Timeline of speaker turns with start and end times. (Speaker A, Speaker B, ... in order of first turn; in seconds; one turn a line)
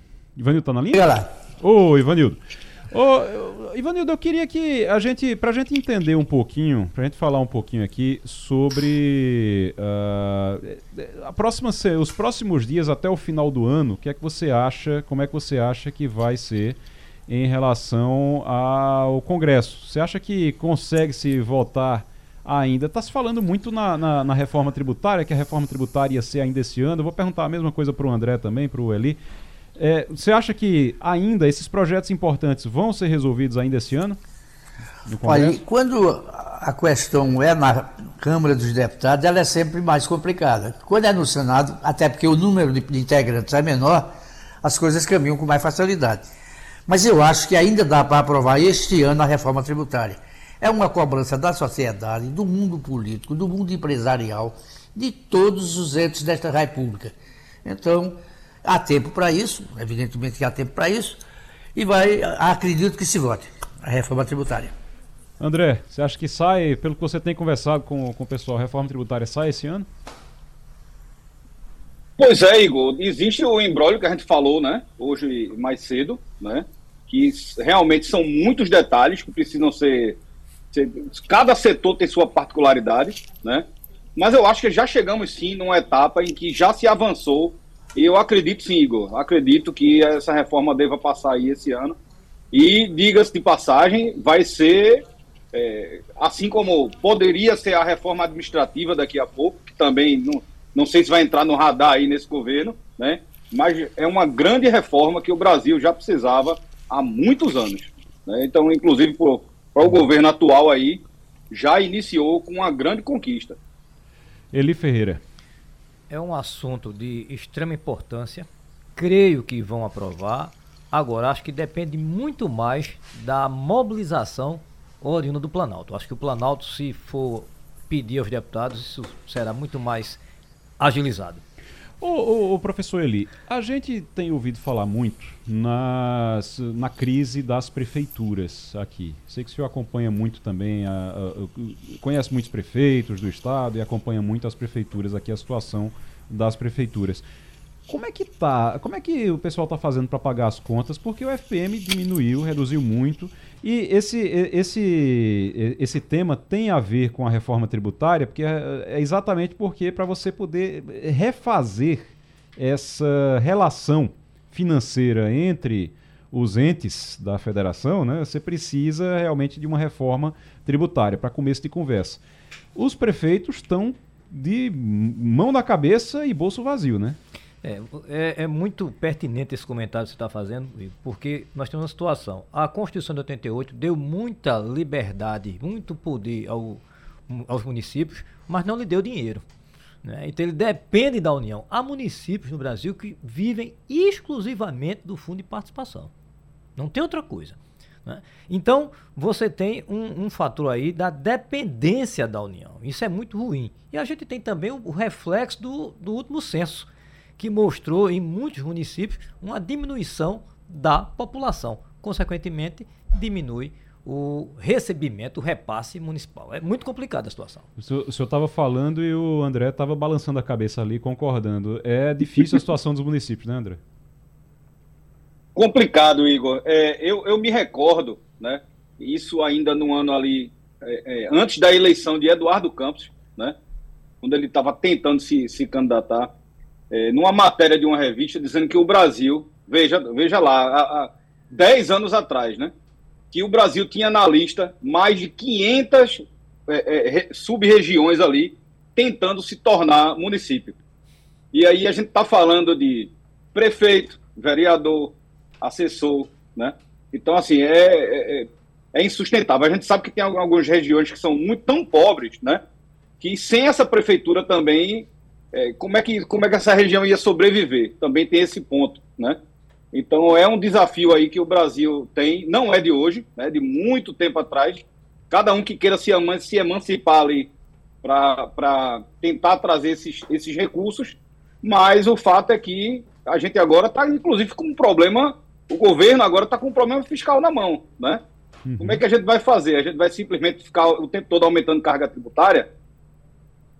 Speaker A: 0.4-2.4
Speaker B: 0.9-1.3
Speaker A: 2.9-29.2
Speaker A: 29.8-34.2
Speaker A: 35.1-35.6
Speaker B: 35.2-44.1
Speaker B: 44.6-46.2
Speaker B: 46.9-61.2
Speaker B: 61.8-64.7
Speaker A: 65.4-69.9
Speaker C: 72.2-80.2
Speaker C: 80.7-83.6
Speaker C: 84.2-92.0
Speaker C: 92.5-113.6
Speaker A: 114.5-115.2
Speaker D: 116.1-130.2
Speaker D: 130.8-131.4
Speaker A: 132.0-147.2
Speaker A: 147.9-172.2
Speaker A: 172.8-177.2
Speaker D: 177.6-189.4
Speaker D: 190.0-196.1
Speaker D: 196.8-217.7
Speaker A: 217.8-223.8
Speaker C: 225.6-233.6
Speaker C: 234.2-236.3
Speaker C: 236.9-242.7
Speaker C: 243.3-250.8
Speaker C: 251.5-262.6
Speaker C: 263.2-269.4
Speaker C: 269.9-277.5
Speaker C: 278.0-288.2
Speaker A: 288.7-289.0
Speaker C: 288.8-292.7